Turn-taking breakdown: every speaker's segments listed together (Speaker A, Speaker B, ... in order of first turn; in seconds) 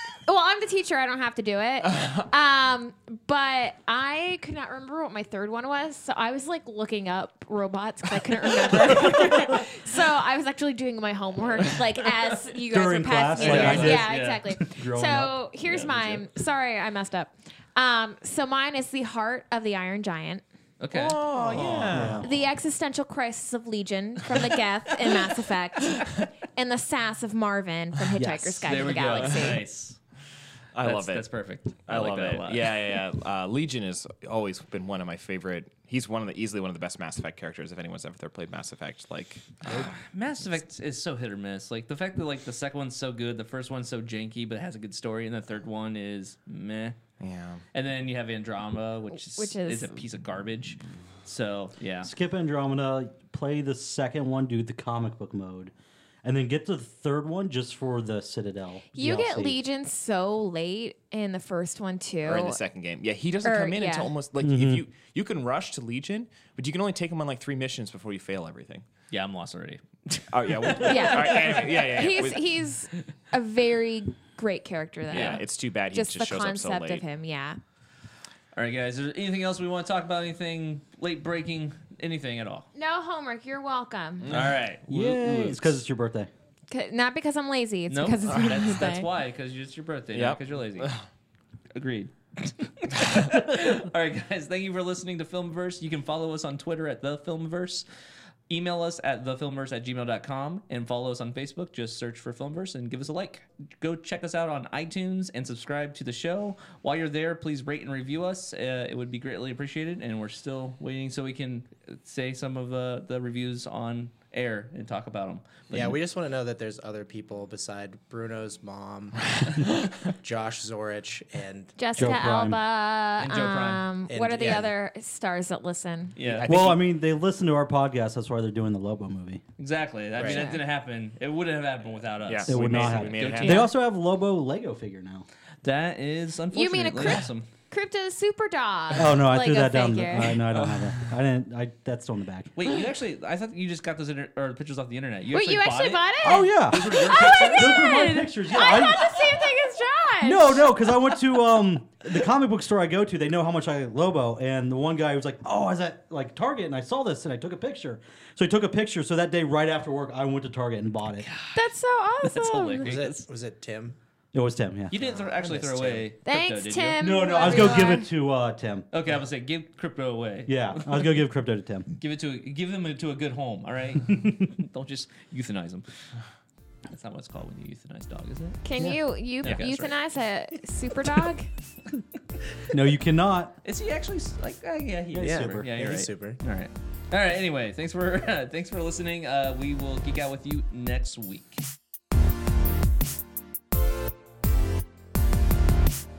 Speaker A: 0.2-20.4, 22.2-29.6, 49.1-50.0, 58.9-62.6, 63.4-64.1, 70.8-77.6, 82.7-84.3, 86.7-89.1, 121.8-126.2, 130.2-130.6, 136.5-140.5, 145.3-150.6, 161.5-162.9, 166.2-168.1, 178.6-181.5
Speaker B: 12.7-15.3, 21.9-22.3, 28.1-29.0, 52.0-55.7, 56.2-59.5, 64.4-64.8, 84.8-86.3, 121.9-122.6, 126.5-129.4, 132.5-135.2, 138.9-142.5, 146.2-149.4, 150.2-161.3, 164.3-165.0, 167.0-168.9, 170.5-171.9, 174.1-174.3, 182.7-183.6, 185.1-185.7
Speaker C: 13.3-14.6, 15.6-16.2, 20.8-22.2, 24.9-25.3, 28.6-30.0, 30.8-33.0, 39.6-47.0, 47.7-52.1, 69.1-72.0, 75.1-75.4, 78.5-82.7, 84.3-85.8, 87.9-90.9, 91.7-97.8, 98.5-115.9, 123.2-123.9, 126.2-126.7, 129.6-133.7, 135.6-137.5, 142.6-147.9, 161.2-161.7, 162.2-163.2, 164.9-167.8, 168.9-171.2, 171.9-175.9, 176.9-178.6, 179.4-179.9, 183.6-191.6
Speaker D: 13.4-13.9, 20.9-22.4, 30.7-31.2, 31.8-39.8, 47.2-47.6, 62.2-68.8, 70.3-72.4, 75.1-77.0, 84.2-84.5, 90.1-91.0, 126.2-126.8, 132.2-133.7
Speaker E: 115.7-121.8, 124.1-124.7, 162.8-163.9, 164.9-166.1, 185.2-186.4